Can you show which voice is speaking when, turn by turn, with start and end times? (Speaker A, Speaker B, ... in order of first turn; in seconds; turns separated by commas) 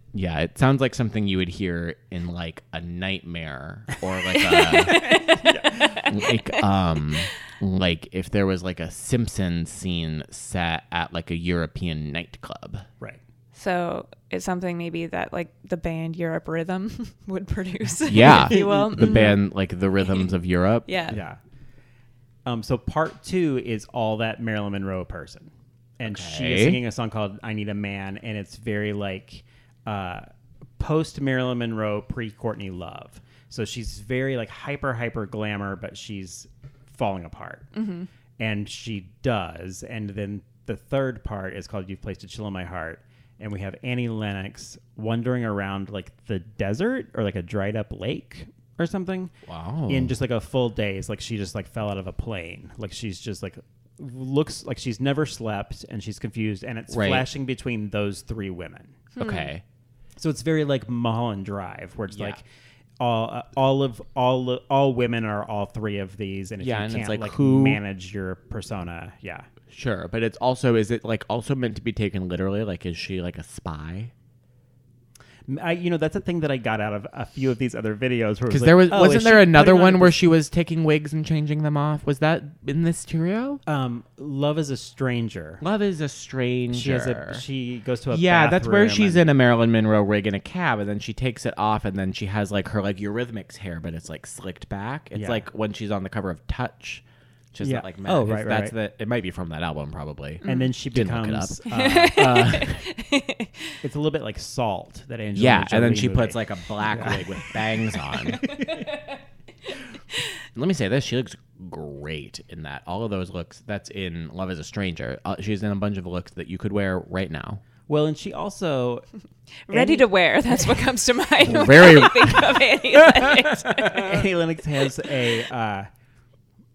Speaker A: 0.1-12.9, Speaker B: 4.4-6.6, Speaker C: 5.3-6.0, Speaker B: 13.5-19.4, Speaker A: 18.1-20.9, Speaker C: 18.2-19.3, Speaker B: 20.9-21.2, Speaker C: 21.1-21.4, Speaker C: 22.4-30.2, Speaker A: 26.0-26.8, Speaker C: 30.8-37.7, Speaker B: 37.7-38.1, Speaker C: 38.4-49.3, Speaker A: 49.5-50.1, Speaker C: 49.9-59.1, Speaker A: 56.9-57.2, Speaker B: 59.1-59.5, Speaker A: 59.2-59.6, Speaker C: 60.2-62.4, Speaker A: 62.1-62.4, Speaker C: 63.0-69.5, Speaker A: 66.6-67.8, Speaker A: 69.7-74.1, Speaker C: 75.5-80.2, Speaker A: 78.5-83.6, Speaker C: 83.7-85.6, Speaker A: 85.6-87.4, Speaker C: 86.7-89.3, Speaker A: 88.1-102.9, Speaker C: 95.1-95.4, Speaker C: 97.6-98.7, Speaker B: 100.4-100.7, Speaker C: 100.4-102.4, Speaker B: 101.7-103.8, Speaker C: 103.8-108.9, Speaker A: 105.3-108.5, Speaker B: 108.3-108.9, Speaker A: 110.5-117.6, Speaker C: 117.9-119.1, Speaker B: 119.7-124.1, Speaker C: 119.7-120.1, Speaker A: 121.4-122.6, Speaker C: 123.7-125.9